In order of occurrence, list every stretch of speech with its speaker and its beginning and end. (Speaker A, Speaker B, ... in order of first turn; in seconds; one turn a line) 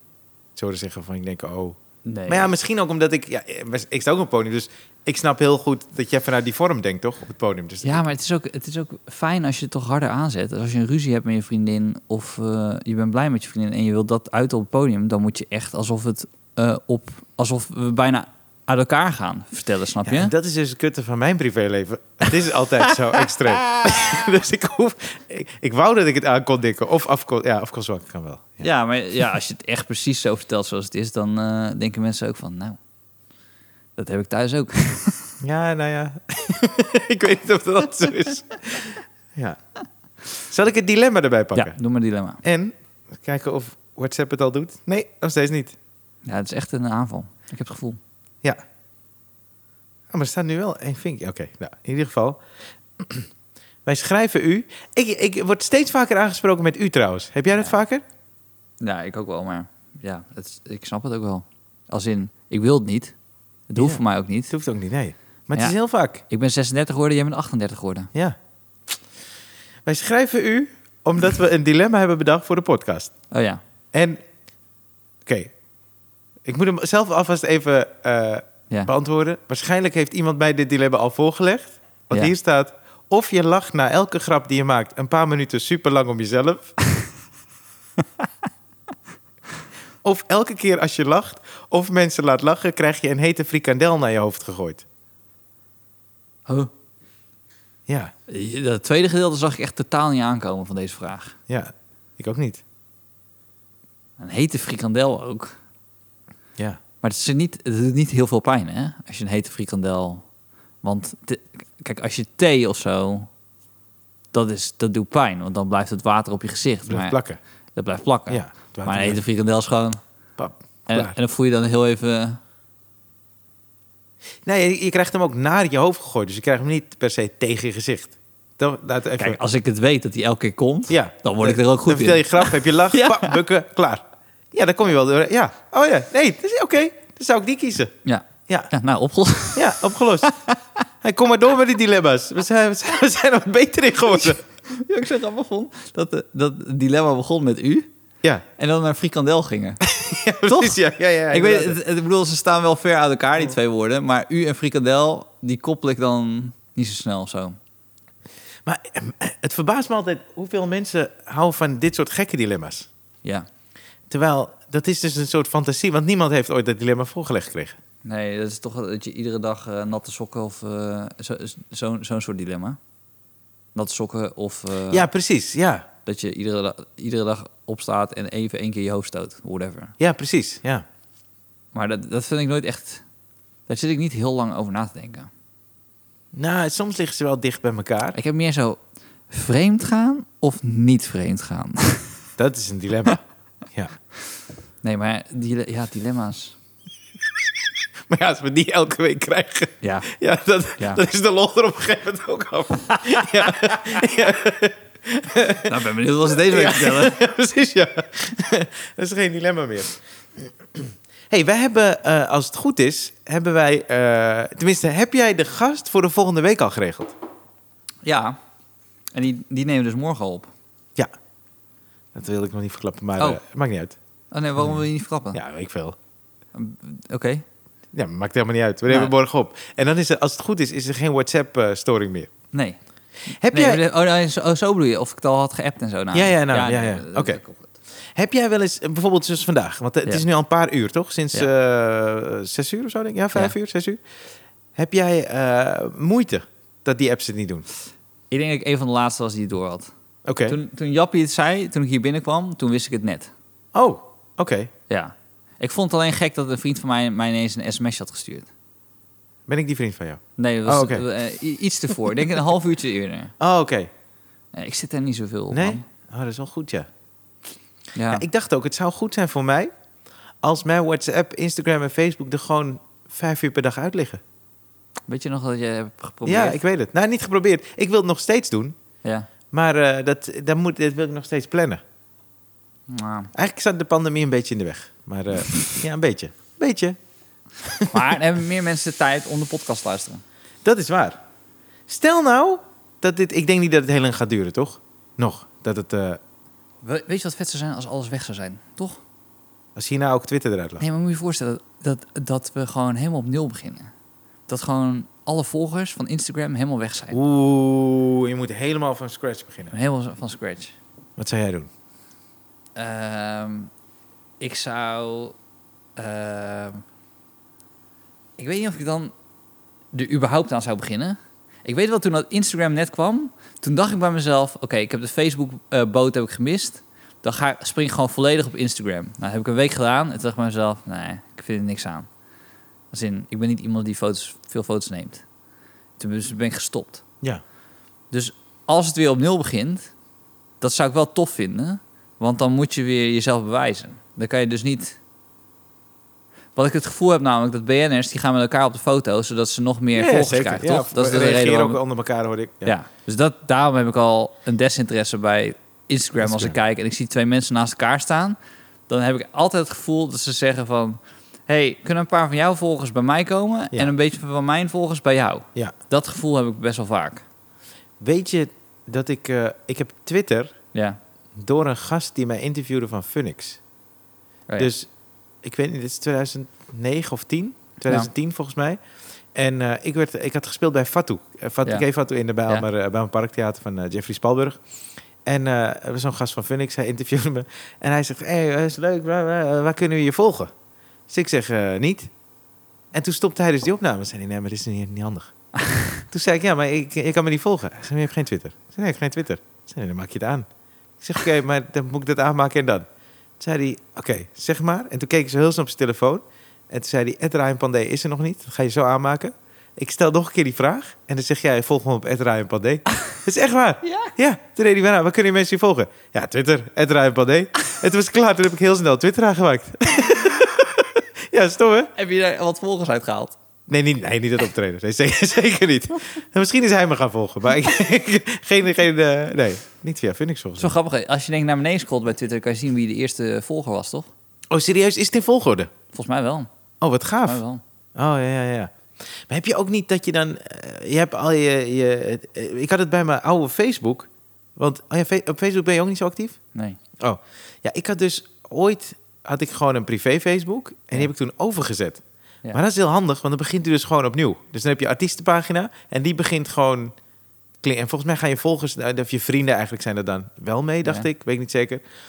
Speaker A: 0.6-8.1
Speaker B: 2.0-2.5
Speaker B: 7.8-20.3
Speaker A: 20.1-28.7
Speaker B: 22.9-24.1
Speaker B: 28.6-32.8
Speaker B: 34.0-35.3
Speaker A: 35.4-39.6
Speaker A: 40.5-41.8
Speaker B: 41.5-42.4
Speaker A: 42.4-45.7
Speaker B: 46.3-48.0
Speaker A: 50.1-52.4
Speaker A: 53.0-53.3
Speaker A: 53.9-58.0
Speaker B: 58.8-63.1
Speaker B: 63.7-64.5
Speaker A: 63.8-66.2
Speaker B: 65.5-68.1
Speaker A: 69.8-73.1
Speaker B: 73.3-73.6
Speaker A: 73.9-74.2
Speaker A: 75.3-75.5
Speaker A: 76.5-86.7
Speaker A: 90.0-94.8
Speaker B: 98.3-101.4
Speaker A: 101.5-102.6
Speaker B: 104.2-105.6
Speaker B: 107.0-110.2
Speaker B: 110.8-113.3
Speaker B: 114.3-117.2
Speaker A: 116.9-117.4
Speaker B: 117.8-120.0
Speaker A: 118.3-119.2
Speaker A: 120.4-121.2
Speaker B: 120.9-122.4
Speaker A: 124.5-129.4
Speaker B: 129.2-133.4
Speaker A: 130.9-137.9
Speaker B: 138.1-140.7
Speaker A: 139.6-140.3
Speaker A: 141.0-144.4
Speaker B: 144.7-147.9
Speaker B: 148.6-149.8
Speaker A: 149.9-151.8
Speaker B: 150.5-150.8
Speaker B: 151.3-157.6
Speaker A: 158.7-162.9
Speaker A: 164.1-167.8
Speaker B: 168.0-172.8
Speaker B: 173.7-175.1
Speaker A: 174.9-175.9
Speaker B: 176.1-179.9
Speaker A: 180.0-180.8
Speaker B: 181.7-183.0
Speaker B: 183.7-185.3
Speaker A: 186.3-188.2
Speaker B: 188.1-192.2
Speaker A: 192.4-193.2
Speaker B: 194.8-196.6
Speaker A: 198.1-205.7
Speaker B: 199.8-200.1
Speaker B: 200.8-201.0
Speaker B: 202.9-203.8
Speaker B: 205.7-207.2
Speaker A: 206.3-217.1
Speaker B: 218.0-218.4
Speaker B: 219.1-220.5
Speaker A: 222.1-223.9
Speaker B: 224.3-225.4
Speaker A: 225.3-225.9
Speaker B: 226.5-227.4
Speaker A: 227.9-232.3
Speaker B: 228.9-229.1
Speaker B: 232.5-232.8
Speaker A: 233.4-233.8
Speaker B: 233.5-237.7
Speaker A: 236.1-237.4
Speaker A: 238.1-244.0
Speaker A: 244.8-247.7
Speaker B: 248.3-249.9
Speaker A: 250.3-250.6
Speaker B: 250.4-253.3
Speaker A: 253.7-254.7
Speaker B: 254.9-258.5
Speaker A: 259.5-261.1
Speaker B: 260.4-263.3
Speaker A: 263.4-263.9
Speaker B: 264.5-265.8
Speaker A: 265.5-266.9
Speaker B: 267.9-268.2
Speaker A: 268.1-269.7
Speaker A: 270.4-274.2
Speaker B: 275.1-276.6
Speaker A: 276.3-278.7
Speaker B: 279.0-279.3
Speaker A: 279.5-281.8
Speaker B: 282.9-283.3
Speaker A: 283.3-287.0
Speaker A: 287.6-288.0
Speaker B: 287.9-290.2
Speaker A: 290.6-291.2
Speaker A: 291.9-296.2
Speaker B: 296.8-299.0
Speaker A: 299.8-300.8
Speaker B: 300.8-303.9
Speaker B: 304.5-307.2
Speaker A: 307.1-309.7
Speaker B: 309.7-310.7
Speaker A: 311.2-311.7
Speaker B: 312.8-313.7
Speaker B: 314.4-315.4
Speaker B: 316.0-316.8
Speaker B: 318.4-319.1
Speaker B: 319.9-332.1
Speaker B: 332.9-335.2
Speaker B: 336.0-337.1
Speaker B: 338.1-339.9
Speaker B: 340.6-345.0
Speaker B: 346.6-351.8
Speaker A: 349.9-352.7
Speaker B: 352.6-358.4
Speaker A: 356.2-356.6
Speaker B: 358.9-367.2
Speaker A: 368.0-370.6
Speaker B: 370.7-371.0
Speaker A: 371.4-373.6
Speaker A: 374.6-374.9
Speaker A: 375.4-378.8
Speaker A: 379.3-384.6
Speaker A: 385.3-390.5
Speaker A: 391.1-392.1
Speaker A: 392.9-395.3
Speaker B: 395.6-396.0
Speaker A: 396.1-400.4
Speaker A: 401.0-402.8
Speaker A: 403.4-421.9
Speaker B: 413.8-414.1
Speaker B: 421.9-423.4
Speaker A: 423.7-430.7
Speaker B: 430.6-434.1
Speaker A: 434.5-435.7
Speaker B: 435.9-436.5
Speaker A: 436.8-437.4
Speaker B: 437.2-437.6
Speaker A: 437.9-438.7
Speaker A: 439.3-446.4
Speaker A: 447.0-452.0
Speaker A: 452.5-456.9
Speaker A: 457.6-461.8